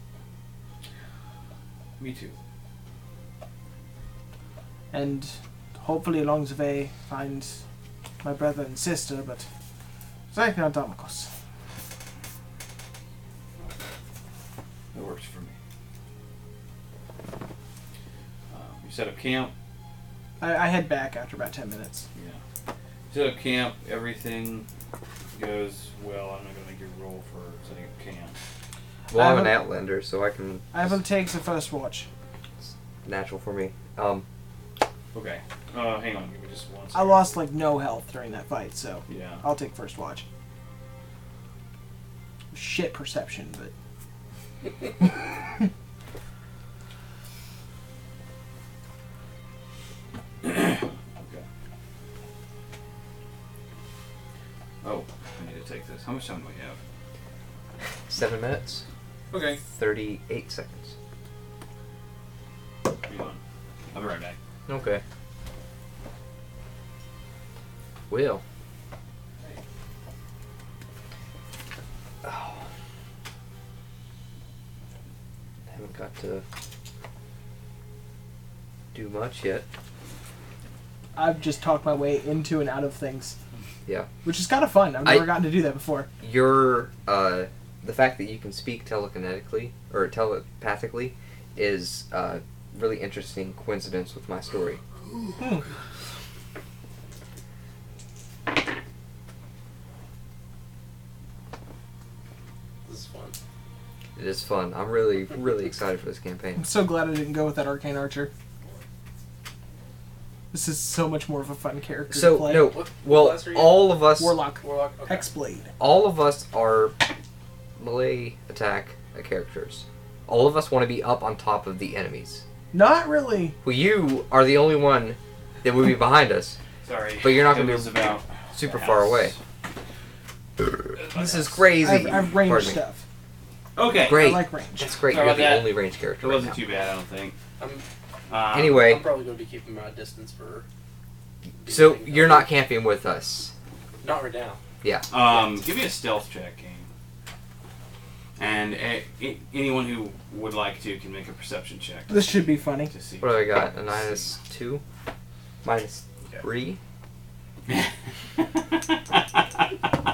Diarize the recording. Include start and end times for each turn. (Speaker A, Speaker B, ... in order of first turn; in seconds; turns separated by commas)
Speaker A: 2.0-2.4, Speaker B: 4.9-7.6, Speaker B: 8.2-9.5, Speaker B: 10.3-11.3, Speaker A: 14.9-15.6, Speaker A: 18.5-19.5, Speaker B: 20.4-22.1, Speaker A: 22.1-22.4, Speaker A: 23.1-24.7, Speaker A: 25.3-28.4, Speaker C: 29.1-30.9, Speaker B: 29.1-29.6, Speaker B: 30.7-32.1, Speaker C: 33.0-34.2, Speaker A: 35.1-37.3, Speaker B: 36.9-40.2, Speaker A: 39.1-39.4, Speaker B: 42.5-43.7, Speaker A: 50.4-51.5, Speaker A: 54.8-56.8, Speaker C: 58.1-58.9, Speaker A: 59.3-59.6, Speaker C: 59.7-61.0, Speaker A: 63.0-63.4, Speaker A: 63.9-64.4, Speaker C: 64.7-65.0, Speaker C: 68.1-68.4, Speaker C: 72.2-72.6, Speaker C: 75.7-76.4, Speaker C: 78.9-79.7, Speaker B: 81.2-83.4, Speaker B: 84.2-86.1, Speaker C: 85.0-85.3, Speaker C: 86.2-94.8, Speaker B: 95.4-95.7, Speaker D: 102.9-103.3, Speaker C: 104.2-106.6, Speaker B: 106.6-108.3, Speaker B: 110.5-112.8, Speaker C: 112.1-114.4, Speaker D: 112.5-113.9, Speaker B: 114.2-115.7, Speaker D: 114.6-115.2, Speaker C: 115.8-117.0, Speaker C: 117.8-122.4, Speaker B: 122.7-123.6, Speaker C: 123.6-126.6, Speaker A: 126.8-129.4, Speaker C: 127.2-129.3, Speaker A: 131.0-131.6, Speaker C: 131.1-132.8, Speaker B: 131.6-133.0, Speaker A: 133.8-134.3, Speaker C: 134.1-136.6, Speaker B: 134.1-135.0, Speaker A: 135.1-137.4, Speaker D: 137.6-137.8, Speaker A: 138.3-138.9, Speaker C: 138.5-139.1, Speaker D: 138.8-140.7, Speaker D: 141.6-142.5, Speaker C: 141.7-143.5, Speaker D: 144.0-144.6, Speaker A: 145.1-146.9, Speaker D: 145.2-145.4, Speaker A: 148.4-154.3, Speaker B: 152.1-152.9, Speaker C: 153.2-154.8, Speaker C: 155.6-156.8, Speaker A: 157.7-159.7